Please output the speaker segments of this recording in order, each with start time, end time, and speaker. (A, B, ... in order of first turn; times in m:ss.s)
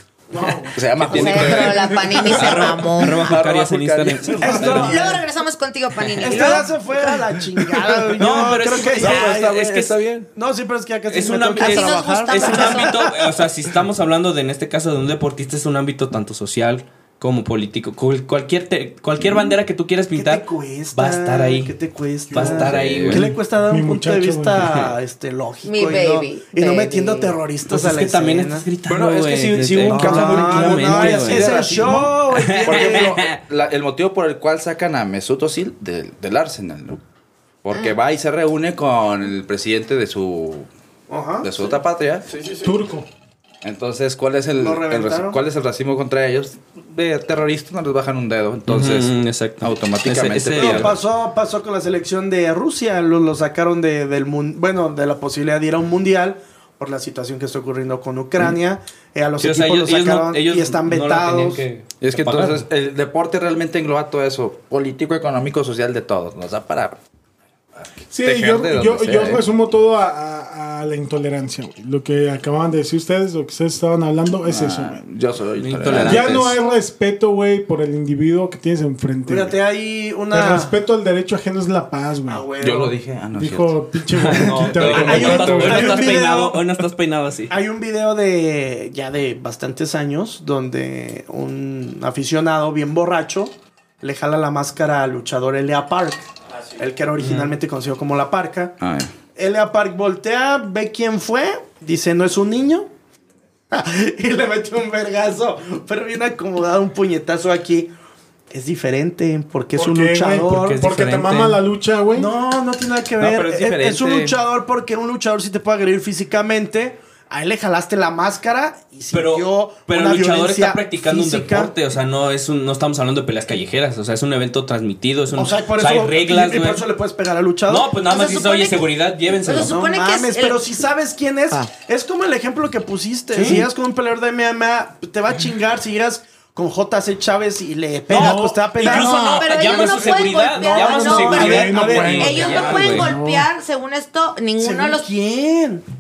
0:00.3-0:00.7 A
0:00.4-0:01.6 B
0:00.7-0:02.6 C
0:01.0-0:03.3 D
0:01.5-0:02.6 A
0:02.2-0:05.0 E
0:03.2-0:04.9 C
0:04.4-0:05.2 B
0:04.5-0:06.7 D
0:06.0-0:06.7 E
0:06.2-0:13.2 B
0:08.2-0:10.2 E
0:09.0-0:10.0 C
0:11.1-0:21.7 E
0:11.6-0:13.0 D
0:20.1-0:28.7 B
0:22.3-0:23.3 E
0:22.3-0:24.7 A
0:22.5-0:23.2 C
0:25.6-0:27.4 D
0:27.7-0:33.4 E
0:28.9-0:37.0 C
0:29.6-0:33.2 B
0:37.6-0:40.7 C
0:41.1-0:41.7 B
0:41.4-0:42.5 C
0:42.6-0:43.1 A
0:43.6-0:51.0 C
0:44.5-0:45.4 B
0:48.7-0:50.9 E
0:50.5-1:01.6 B
0:59.4-1:02.6 E
1:02.0-1:07.0 C
1:07.8-1:09.4 C
1:08.1-1:15.0 A
1:14.5-1:16.6 C
1:15.6-1:16.4 E
1:15.9-1:19.6 A
1:19.2-1:20.7 B
1:20.3-1:22.4 A
1:22.2-1:23.0 B
1:22.6-1:26.1 C
1:23.3-1:26.0 A
1:24.2-1:27.5 E
1:24.9-1:26.6 B
1:27.5-1:36.2 B
1:36.8-1:38.8 B
1:37.2-1:37.5 E
1:38.8-1:39.1 C
1:39.4-1:42.9 B
1:43.7-1:47.9 B
1:48.5-1:50.8 B
1:49.7-1:52.3 A
1:50.4-1:51.6 E
1:52.1-2:01.7 B
1:53.2-1:54.4 C
1:59.1-2:06.8 E
2:05.4-2:07.9 B
2:07.7-2:09.7 E
2:08.1-2:08.9 D
2:09.4-2:10.6 D
2:09.4-2:19.1 B
2:13.3-2:13.7 E
2:18.1-2:23.1 E
2:18.1-2:19.8 A
2:18.8-2:25.0 D
2:19.7-2:22.9 B
2:21.3-2:23.5 A
2:24.6-2:25.8 B